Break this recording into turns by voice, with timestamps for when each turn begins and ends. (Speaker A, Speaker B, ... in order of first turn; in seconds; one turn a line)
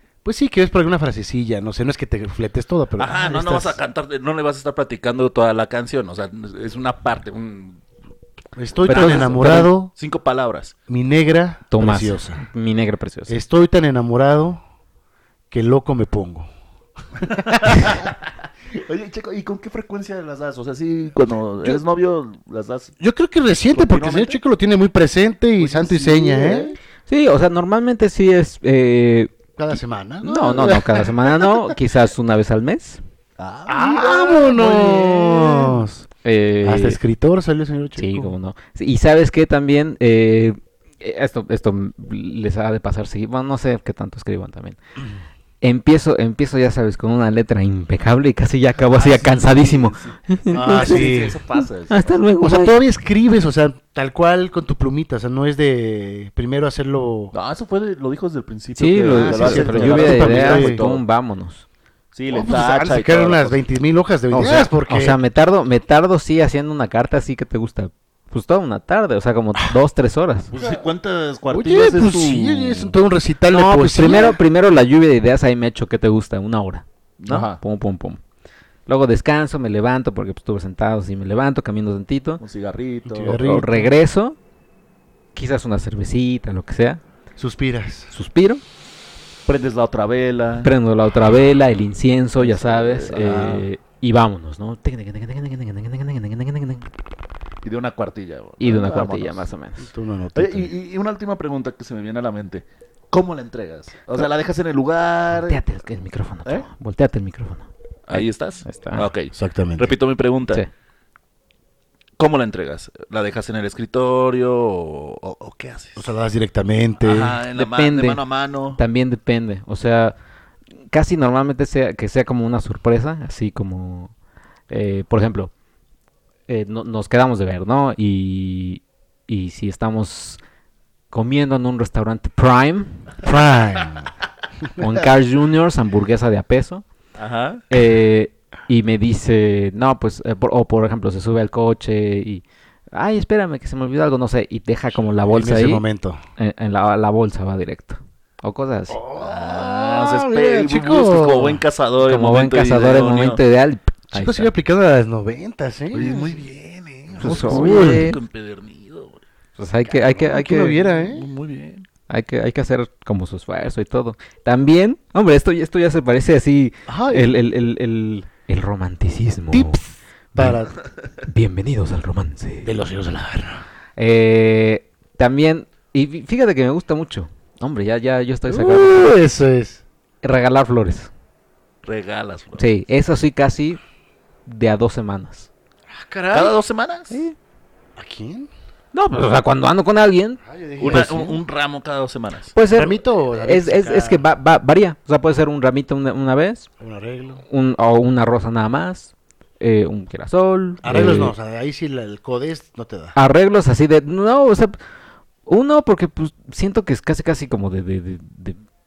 Speaker A: 0.2-3.8
Speaker B: 3.0-7.8
Speaker A: 8.6-9.9
Speaker B: 8.8-10.7
Speaker C: 8.9-9.7
Speaker A: 10.9-12.4
Speaker C: 11.7-13.3
Speaker A: 13.3-14.6
Speaker A: 15.5-16.5
Speaker A: 17.2-18.0
Speaker B: 17.2-22.9
Speaker A: 23.0-26.8
Speaker B: 23.6-24.4
Speaker B: 25.6-26.8
Speaker C: 27.1-29.3
Speaker A: 29.6-31.5
Speaker C: 30.2-33.0
Speaker B: 33.4-35.8
Speaker A: 33.7-36.0
Speaker C: 36.2-37.0
Speaker A: 36.6-38.3
Speaker C: 38.0-44.8
Speaker C: 45.6-52.7
Speaker B: 48.9-52.1
Speaker A: 50.5-51.4
Speaker A: 52.4-57.3
Speaker B: 57.3-61.0
Speaker C: 58.8-61.6
Speaker A: 59.0-60.8
Speaker B: 62.1-63.6
Speaker A: 62.3-65.2
Speaker C: 64.3-70.5
Speaker B: 70.5-72.9
Speaker A: 71.5-74.4
Speaker C: 73.5-78.2
Speaker B: 77.2-77.6
Speaker C: 78.9-82.4
Speaker B: 82.4-83.4
Speaker A: 83.0-83.9
Speaker C: 83.3-84.3
Speaker C: 85.3-87.0
Speaker A: 87.4-88.1
Speaker C: 88.1-88.6
Speaker B: 89.5-90.7
Speaker C: 90.6-96.9
Speaker B: 92.4-93.7
Speaker B: 97.6-99.4
Speaker C: 98.6-99.9
Speaker A: 99.8-100.7
Speaker B: 100.3-105.6
Speaker C: 105.3-109.1
Speaker B: 108.1-110.6
Speaker A: 109.3-110.0
Speaker B: 112.2-116.1
Speaker A: 116.0-117.4
Speaker B: 117.0-118.8
Speaker C: 117.5-118.2
Speaker C: 118.8-120.2
Speaker C: 120.9-124.1
Speaker C: 124.7-125.5
Speaker C: 126.5-130.4
Speaker C: 131.1-133.2
Speaker A: 133.2-134.1
Speaker A: 134.6-135.1
Speaker C: 134.8-136.8
Speaker B: 137.2-137.6
Speaker C: 137.7-145.8
Speaker A: 145.3-146.2
Speaker C: 146.4-149.0
Speaker A: 148.9-151.6
Speaker B: 149.2-153.4
Speaker C: 152.0-154.5
Speaker A: 154.1-156.4
Speaker B: 155.9-159.2
Speaker A: 157.1-158.2
Speaker C: 157.2-158.2
Speaker C: 159.6-160.8
Speaker A: 159.8-161.2
Speaker B: 160.7-161.9
Speaker C: 162.1-169.8
Speaker A: 166.9-167.3
Speaker A: 169.5-170.8
Speaker C: 170.3-170.7
Speaker C: 171.2-172.7
Speaker A: 172.6-173.6
Speaker C: 174.0-179.2
Speaker A: 178.5-179.8
Speaker C: 180.2-181.1
Speaker B: 181.8-182.7
Speaker C: 182.6-183.8
Speaker C: 184.4-185.5
Speaker A: 185.9-186.6
Speaker B: 186.3-187.2
Speaker A: 187.9-188.5
Speaker C: 188.9-191.1
Speaker A: 190.4-191.4
Speaker B: 190.8-192.5
Speaker C: 192.5-196.7
Speaker A: 192.7-194.2
Speaker A: 196.8-197.4
Speaker C: 197.5-201.3
Speaker A: 200.8-203.1
Speaker C: 203.1-204.8
Speaker C: 205.5-208.6